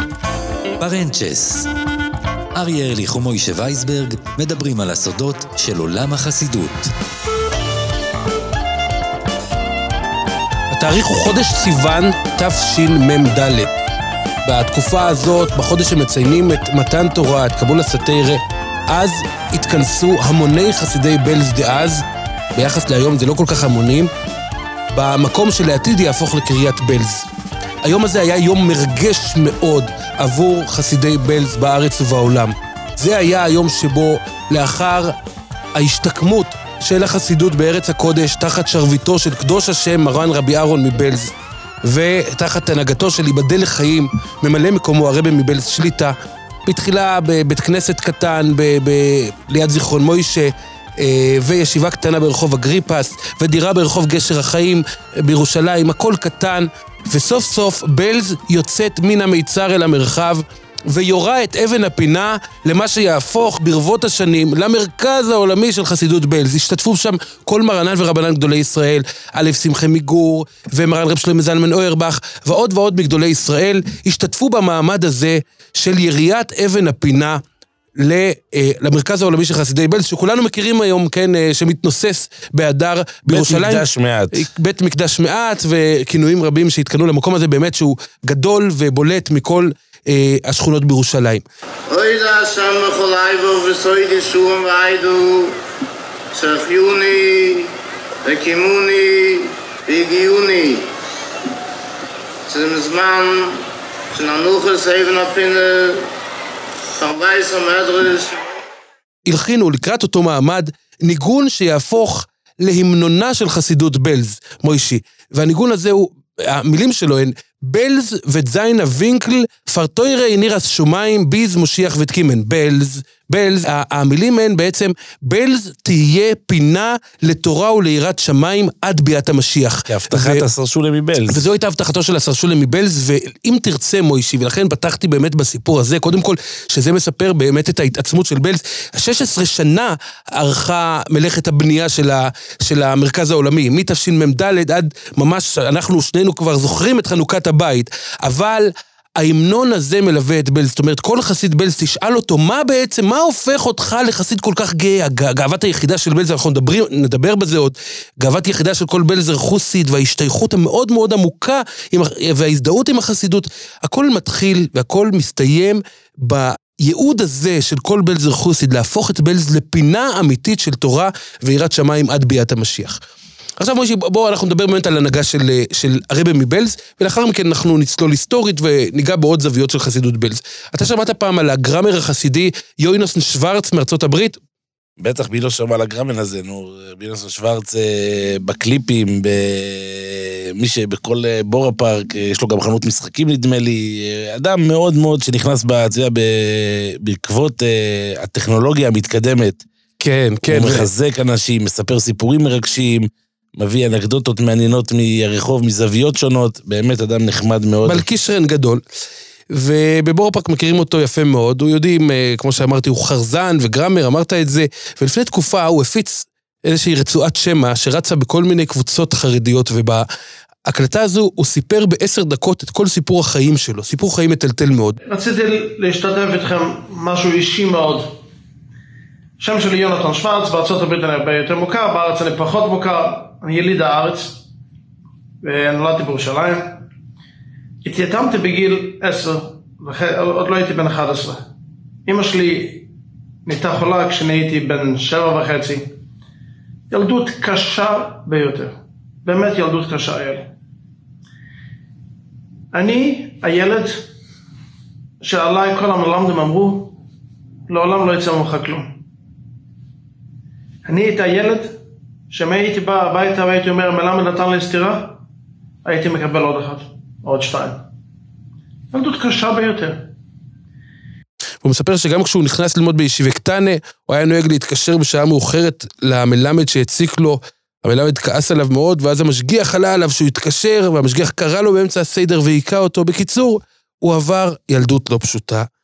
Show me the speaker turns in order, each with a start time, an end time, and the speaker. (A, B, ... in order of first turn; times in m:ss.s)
0:00.8-0:01.7 A
0:02.6-0:06.9 A
0:10.7-0:13.7 B
0:14.4-0:24.1 B
0:24.9-0:27.3 B
0:27.8-0:35.2 B
0:35.8-0:46.2 B
0:46.7-1:17.4 B
1:18.0-1:31.4 B
1:23.3-1:24.4 C
1:31.9-1:35.6 D
1:36.3-1:37.7 D
1:38.2-1:40.9 D
1:42.5-1:43.6 D
1:44.1-1:46.1 D
1:47.0-1:48.5 D
1:49.3-2:10.5 B
2:09.9-2:11.4 C
2:11.3-2:53.0 B
2:53.6-3:04.4 B
3:05.0-3:19.6 C
3:20.0-3:20.9 B
3:20.5-3:28.1 C
3:27.8-3:28.8 B
3:29.5-3:40.1 B
3:40.7-3:45.0 B
3:45.0-3:48.1 E
3:49.4-3:54.4 E
3:55.4-3:56.8 E
3:57.8-4:01.4 E
4:02.1-4:02.8 E
4:03.5-4:05.9 E
4:06.9-4:10.5 E
4:12.7-4:14.0 E
4:15.2-4:17.0 E
4:17.7-4:18.9 E
4:20.9-4:21.7 E
4:22.3-4:25.2 E
4:25.8-4:27.8 E
4:28.9-4:30.1 E
4:31.6-4:45.7 B